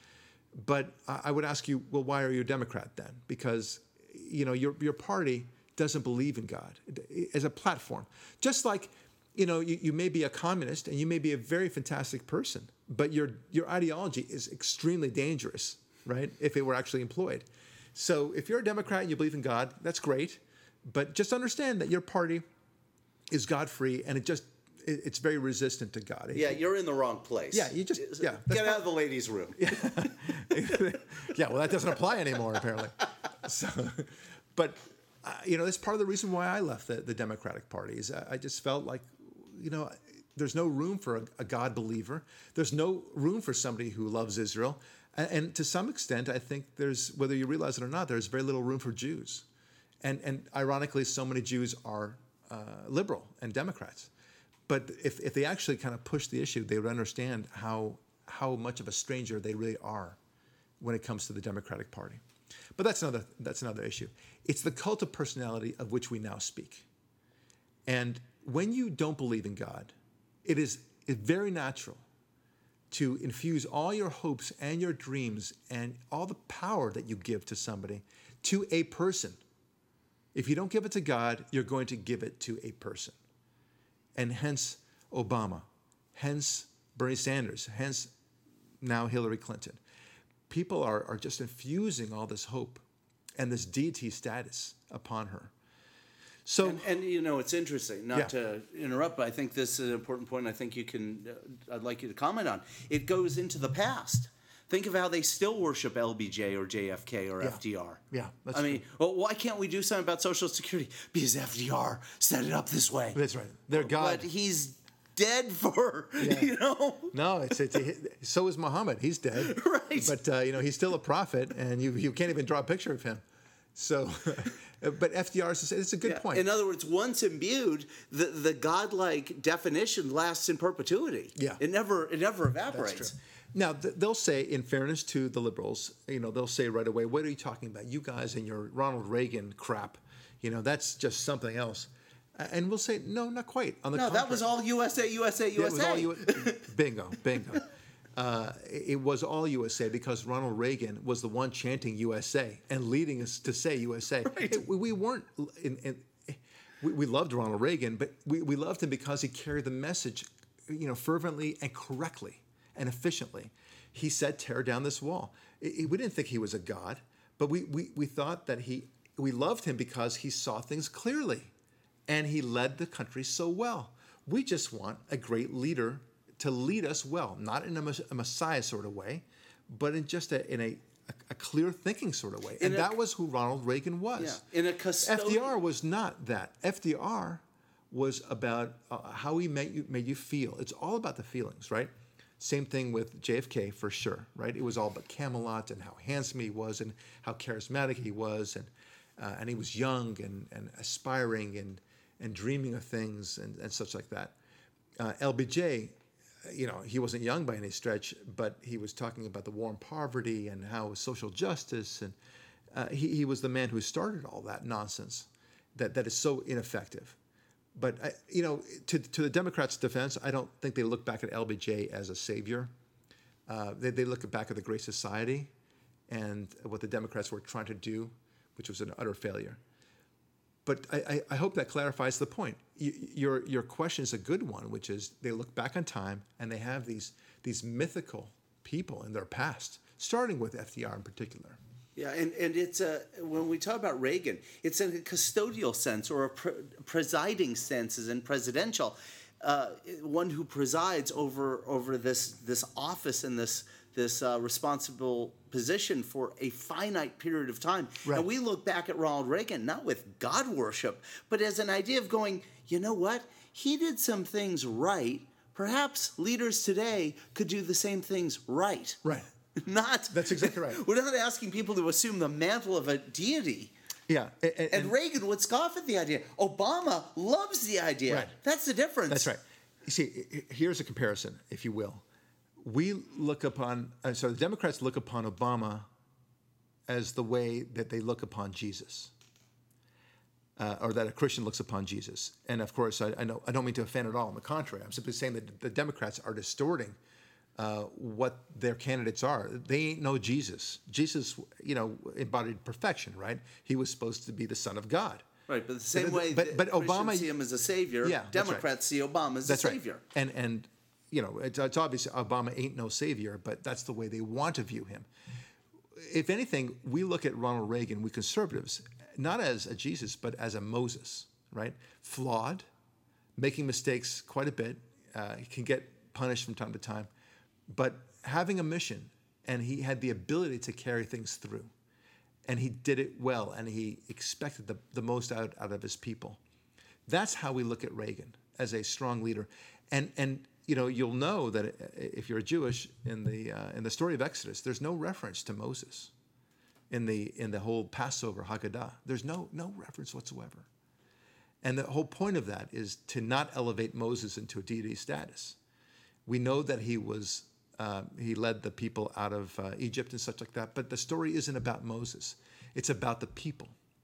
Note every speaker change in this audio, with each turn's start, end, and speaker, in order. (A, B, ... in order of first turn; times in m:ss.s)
0:00.5-0:22.4 A
0:23.3-0:26.6 A
0:26.3-0:29.8 B
0:27.5-0:28.8 A
0:29.6-0:49.4 A
0:50.0-0:54.1 A
0:54.7-1:00.2 A
1:00.8-1:02.2 A
1:02.8-1:06.9 A
1:07.9-1:09.9 A
1:10.4-1:12.0 A
1:12.9-1:19.4 A
1:20.3-1:23.2 A
1:24.1-1:28.1 A
1:28.8-1:29.8 A
1:30.5-1:32.8 A
1:33.4-1:35.5 A
1:36.4-1:36.9 A
1:36.6-1:48.0 B
1:47.4-1:48.8 A
1:48.5-1:53.2 B
1:53.1-1:54.3 A
1:53.7-1:57.1 B
1:56.2-1:56.5 A
1:57.1-2:03.2 A
1:59.4-2:00.2 B
2:03.7-2:06.5 A
2:06.0-2:13.2 B
2:11.4-2:11.6 A
2:12.7-2:24.5 A
2:23.9-2:26.6 B
2:25.6-2:51.5 A
2:34.2-2:34.6 B
2:52.1-3:04.4 A
3:02.6-3:02.9 B
3:04.2-3:05.5 B
3:05.0-3:24.4 A
3:25.0-3:32.2 A
3:32.7-3:37.2 A
3:37.7-3:42.7 A
3:43.5-3:45.5 A
3:46.1-3:49.6 A
3:50.6-4:01.6 A
4:02.0-4:29.0 B
4:29.0-4:29.3 A
4:29.6-4:33.7 B
4:30.1-4:30.8 A
4:34.1-4:34.9 A
4:34.7-4:39.3 B
4:39.1-4:42.0 A
4:42.6-4:45.9 A
4:46.9-4:49.1 A
4:50.6-4:57.0 A
4:57.6-5:05.2 A
5:05.5-5:10.0 B
5:05.9-5:07.3 A
5:08.0-5:08.6 A
5:09.4-5:15.1 A
5:15.9-5:22.6 A
5:23.4-5:27.1 A
5:27.7-5:31.7 A
5:32.5-5:36.4 A
5:37.1-5:46.1 A
5:46.9-5:50.7 A
5:51.6-5:55.6 A
5:56.2-6:03.8 A